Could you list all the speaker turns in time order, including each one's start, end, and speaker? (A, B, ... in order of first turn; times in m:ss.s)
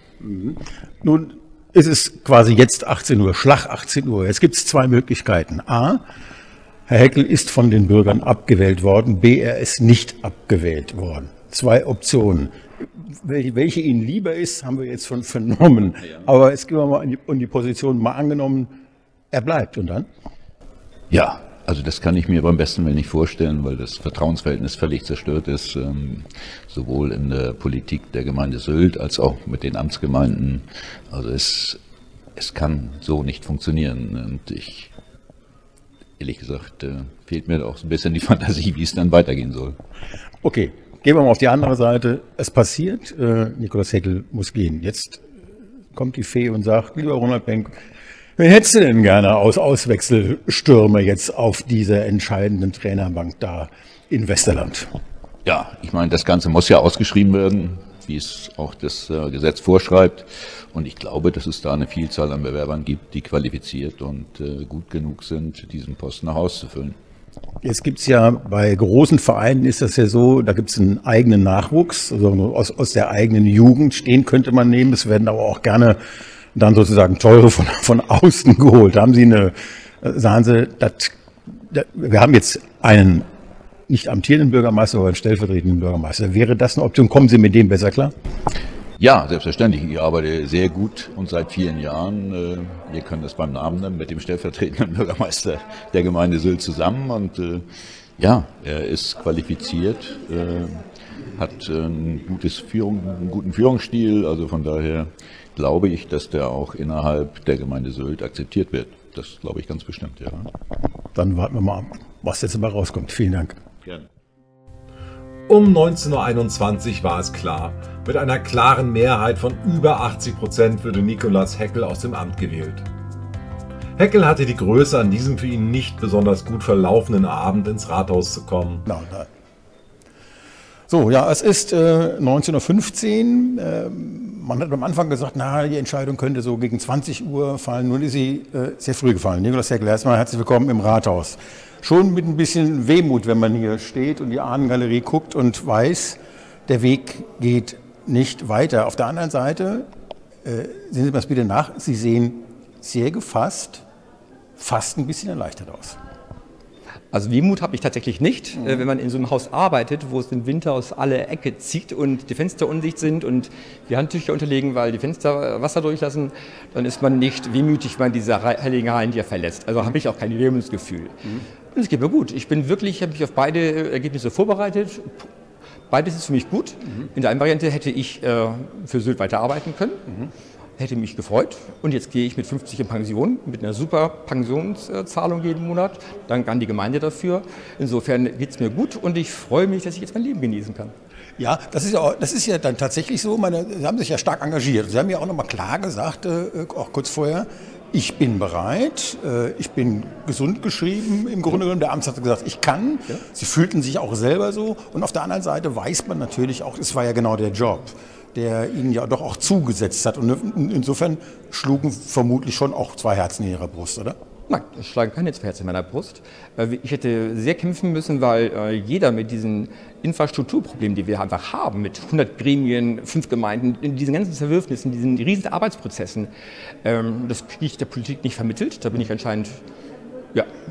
0:00.2-0:06.0 A
0:06.9-0:18.7 A
0:19.3-0:20.1 A
0:21.1-0:31.8 B
0:32.4-0:34.9 B
0:36.2-0:39.8 B
0:40.4-0:45.2 A
0:45.9-0:47.8 A
0:48.4-0:54.9 A
0:55.4-1:07.0 B
1:07.6-1:16.0 A
1:16.5-1:23.2 A
1:23.9-1:28.1 A
1:29.0-1:37.6 B
1:38.2-1:40.8 B
1:41.3-1:50.5 B
1:51.2-1:53.6 A
1:55.5-2:02.8 C
2:04.0-2:08.8 C
2:08.8-2:09.3 A
2:10.9-2:29.8 A
2:30.4-2:33.8 A
2:34.6-2:36.0 A
2:37.1-2:55.3 D
2:55.9-3:00.0 D
3:00.8-3:10.9 D
3:11.4-3:34.2 A
3:34.5-3:49.6 D